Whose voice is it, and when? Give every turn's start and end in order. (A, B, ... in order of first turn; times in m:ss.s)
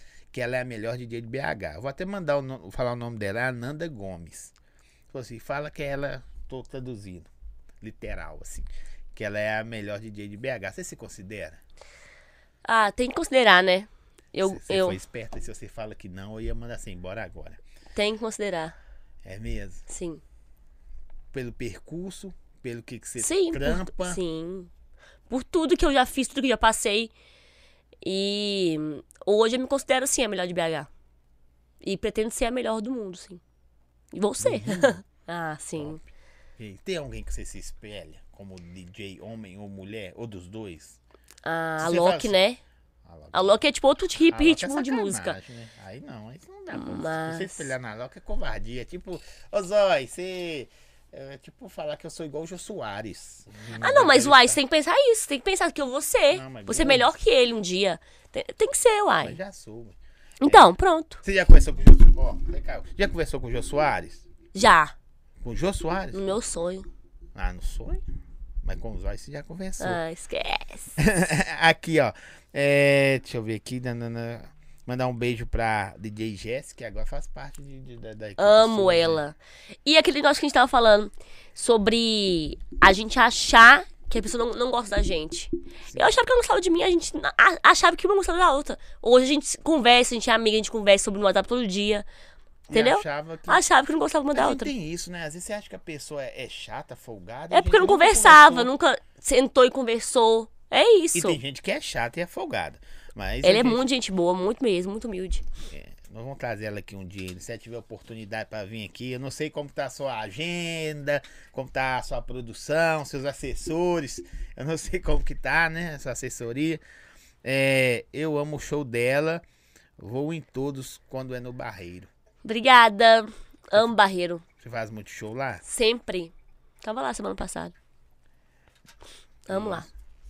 0:00.3-0:04.5 A
0:05.1-0:07.3 A
0:07.8-0:11.6 A
0:12.6-0:15.0 B
0:14.4-0:17.6 A
0:17.9-0:18.8 B
0:19.2-0:19.8 A
0:19.9-0:20.2 B
0:21.3-0:24.2 A
0:23.2-0:24.7 B
0:25.3-0:27.1 B
0:28.0-0:30.9 B
0:31.8-0:33.4 B
0:34.1-0:36.0 B
0:34.4-0:35.0 A
0:35.8-0:36.1 A
0:36.6-0:41.0 A
0:41.4-0:42.6 B
0:41.8-0:42.4 A
0:43.0-0:43.6 A
0:43.3-0:45.4 B
0:44.3-0:54.6 A
0:46.7-0:47.7 B
0:53.8-0:59.4 B
0:56.3-0:57.1 A
0:59.2-1:04.2 A
1:00.4-1:01.2 B
1:04.5-1:04.9 B
1:05.4-1:06.4 A
1:06.1-1:06.8 B
1:07.3-1:08.0 A
1:08.6-1:10.0 A
1:09.8-1:11.0 B
1:11.0-1:19.2 A
1:18.4-1:32.0 B
1:25.9-1:26.2 A
1:32.7-1:33.6 A
1:32.7-1:34.7 B
1:34.3-1:38.7 A
1:37.5-1:41.4 B
1:41.1-1:43.8 A
1:43.4-1:45.4 B
1:45.7-1:56.8 A
1:57.4-1:59.4 A
2:00.0-2:02.1 A
2:02.4-2:04.4 B
2:04.6-2:05.6 A
2:05.6-2:07.7 B
2:09.5-2:09.9 B
2:09.5-2:09.9 A